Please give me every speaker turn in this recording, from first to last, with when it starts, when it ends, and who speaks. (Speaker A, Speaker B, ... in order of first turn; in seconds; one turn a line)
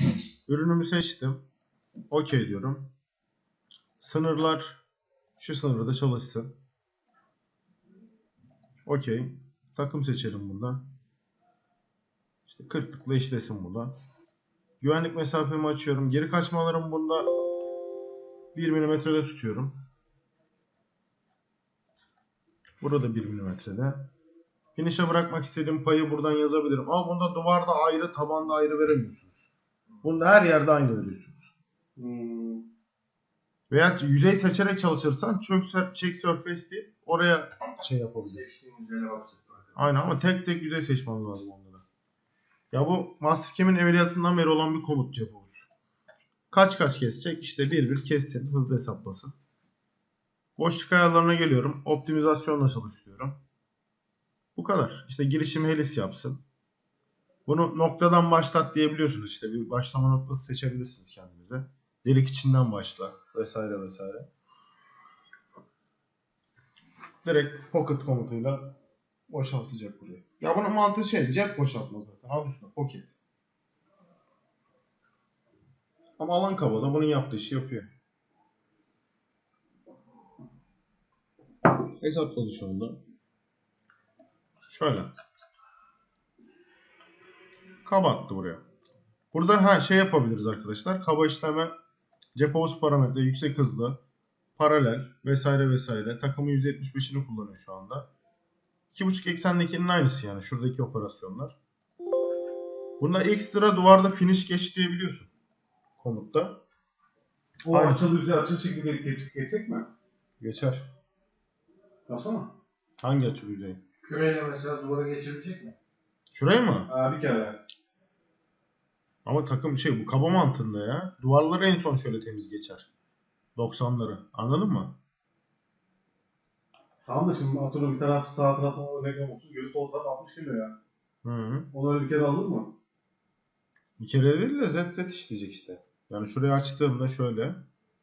Speaker A: 0.5-1.4
Speaker A: 2.1-2.9
Speaker A: 4.0-4.8
Speaker A: 5.4-6.5
Speaker A: 8.9-10.8
Speaker A: 12.5-13.9
Speaker A: 14.8-17.3
Speaker A: 18.5-19.7
Speaker A: 22.8-24.1
Speaker A: 24.8-29.5
Speaker A: 30.0-31.5
Speaker B: 32.0-32.6
Speaker A: 33.7-38.6
Speaker C: 38.5-39.7
Speaker A: 39.8-41.8
Speaker A: 42.7-45.7
Speaker A: 46.5-49.3
Speaker A: 50.6-53.4
Speaker A: 54.6-56.4
Speaker A: 57.5-64.3
Speaker A: 67.2-68.7
Speaker A: 69.3-73.1
Speaker A: 76.2-77.9
Speaker A: 82.0-83.0
Speaker A: 84.7-85.1
Speaker A: 87.8-88.6
Speaker A: 89.3-91.7
Speaker A: 92.3-94.0
Speaker A: 94.6-98.1
Speaker A: 98.9-101.6
Speaker A: 103.0-105.3
Speaker A: 106.0-106.6
Speaker B: 107.6-109.9
Speaker A: 107.7-108.0
Speaker A: 110.4-110.9
Speaker B: 112.1-112.5
Speaker A: 113.0-113.8
Speaker C: 114.0-115.8
Speaker A: 116.3-116.9
Speaker B: 116.9-117.6
Speaker A: 119.2-122.9
Speaker A: 123.6-125.0
Speaker B: 127.0-130.8
Speaker A: 131.2-131.7
Speaker B: 131.7-132.7
Speaker A: 134.0-137.6